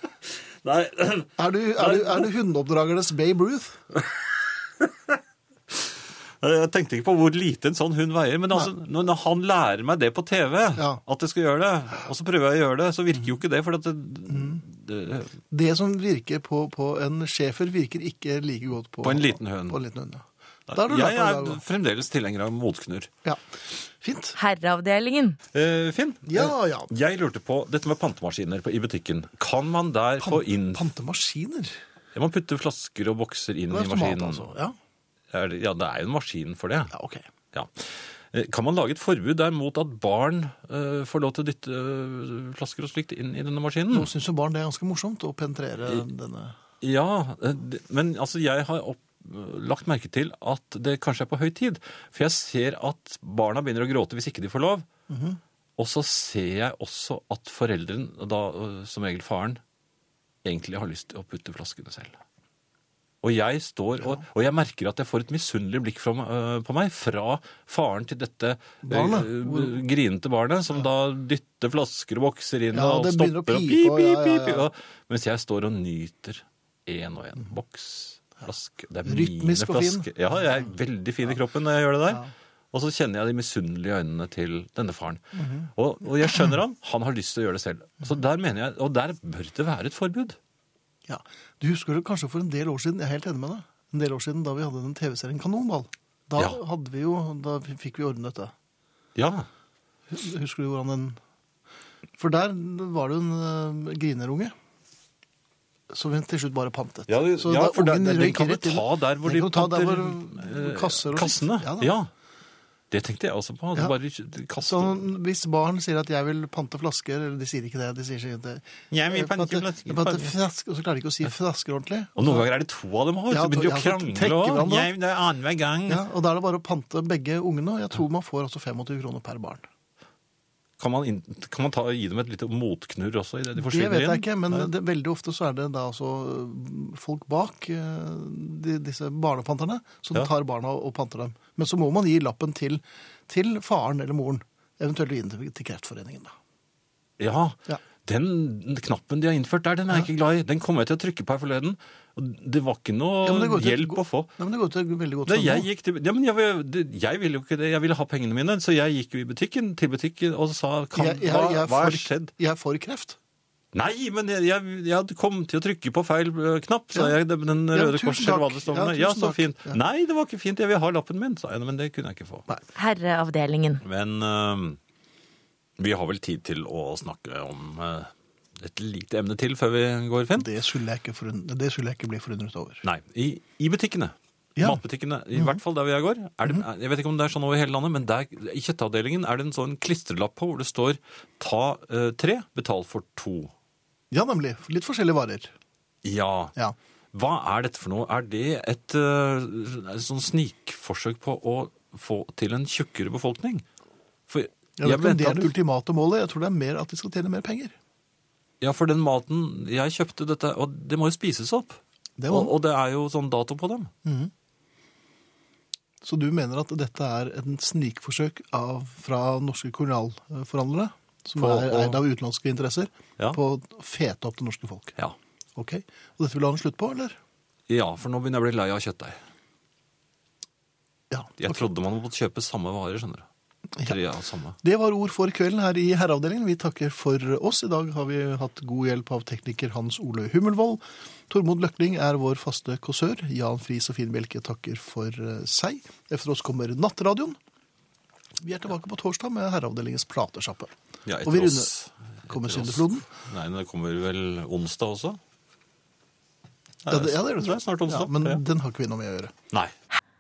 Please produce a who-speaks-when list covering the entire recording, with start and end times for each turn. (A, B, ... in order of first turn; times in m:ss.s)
0:00.6-0:02.3 A
0:01.4-0:03.8 B
0:04.0-0:05.2 A
0:05.7-0:15.4 A
0:14.3-0:14.6 B
0:15.5-0:21.6 B
0:19.0-0:19.8 A
0:20.7-0:23.1 A
0:24.0-0:24.4 B
0:24.4-0:25.4 C
0:25.5-0:30.8 A
0:26.3-0:26.9 B
0:30.2-0:31.8 B
0:32.1-0:34.5 A
0:33.7-0:34.8 B
0:35.3-0:36.9 A
0:36.9-0:37.2 B
0:37.5-0:44.1 A
0:43.9-0:46.6 B
0:46.8-0:54.9 A
0:55.1-0:55.4 B
0:55.8-0:59.6 A
1:00.4-1:02.2 A
1:03.2-1:30.4 A
1:08.8-1:09.8 B
1:12.7-1:14.7 B
1:19.0-1:20.1 B
1:25.4-1:25.7 B
1:31.1-1:38.5 B
1:39.2-1:39.5 A
1:40.1-1:41.2 B
1:42.2-1:44.5 B
1:45.9-1:51.9 B
1:47.1-1:52.1 A
1:52.9-1:55.0 A
1:54.6-2:02.4 B
1:58.9-2:00.4 A
2:02.2-2:06.0 A
2:03.3-2:04.9 B
2:05.9-2:09.6 B
2:10.8-2:14.7 A
2:13.5-2:26.3 B
2:27.2-2:34.3 A
2:33.2-2:35.7 B
2:35.3-2:42.3 A
2:40.9-2:43.2 B
2:43.7-2:52.5 A
2:46.9-2:49.8 B
2:52.8-2:53.8 C
2:53.8-2:54.8 A
2:55.8-3:00.5 A
3:00.4-3:02.8 B
3:02.8-3:13.5 A
3:04.6-3:04.8 B
3:14.1-3:15.5 B
3:16.0-3:16.5 A
3:17.1-3:23.6 A
3:24.3-3:25.6 A
3:24.8-3:27.8 B
3:28.6-3:33.9 A
3:32.2-3:32.5 B
3:34.0-3:34.3 B
3:36.0-3:45.0 B
3:41.4-3:42.0 A
3:45.6-3:47.2 B
3:47.7-3:49.2 A
3:51.1-3:51.6 B
3:51.4-3:53.3 A
3:53.8-3:54.6 A
3:54.6-4:07.4 B
4:08.4-4:10.7 B
4:11.1-4:15.2 A
4:11.2-4:11.7 B
4:12.3-4:13.1 B
4:16.8-4:18.4 A
4:16.9-4:19.3 B